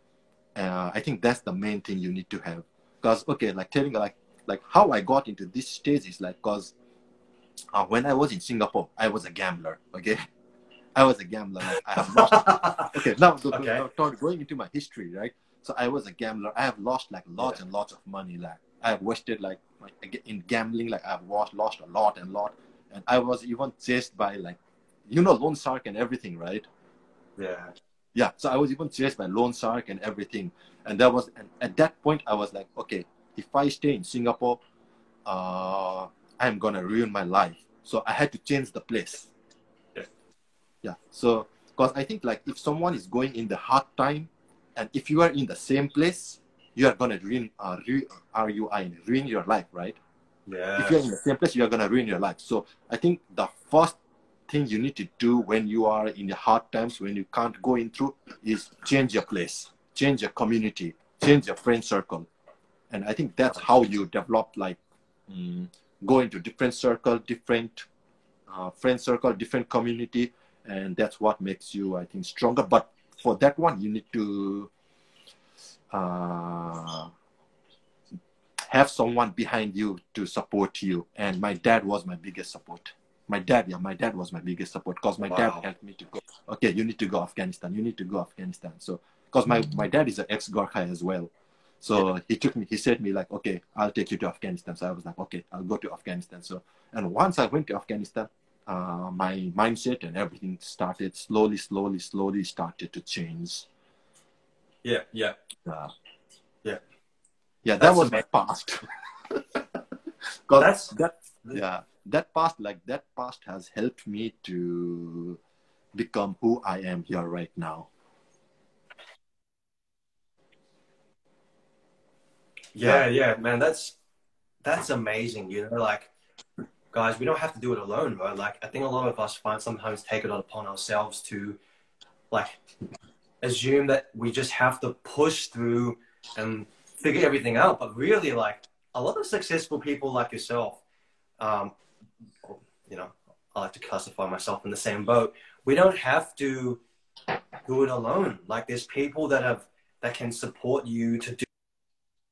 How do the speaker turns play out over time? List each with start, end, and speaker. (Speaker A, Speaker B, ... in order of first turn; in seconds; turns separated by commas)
Speaker A: 0.5-6.7, Speaker A: 7.7-10.2, Speaker A: 10.9-26.6, Speaker B: 12.1-12.9, Speaker B: 13.5-13.8, Speaker B: 27.4-27.7, Speaker A: 28.1-34.6, Speaker A: 35.2-39.3, Speaker A: 40.8-50.0, Speaker B: 50.5-51.0, Speaker A: 50.8-54.0, Speaker A: 54.5-62.3, Speaker A: 62.9-67.9, Speaker A: 68.5-74.7, Speaker A: 75.9-77.1, Speaker A: 78.7-91.3, Speaker B: 85.2-85.6, Speaker A: 91.8-103.7, Speaker B: 104.8-105.3, Speaker A: 105.7-105.9, Speaker A: 107.6-109.7, Speaker B: 107.8-108.2, Speaker A: 110.5-115.4, Speaker B: 110.6-110.9, Speaker A: 115.9-117.9, Speaker B: 122.7-124.0, Speaker B: 124.6-126.1, Speaker B: 126.9-131.6, Speaker B: 132.3-132.6, Speaker B: 133.4-140.8, Speaker B: 141.4-141.7, Speaker B: 142.4-146.8, Speaker B: 147.7-151.4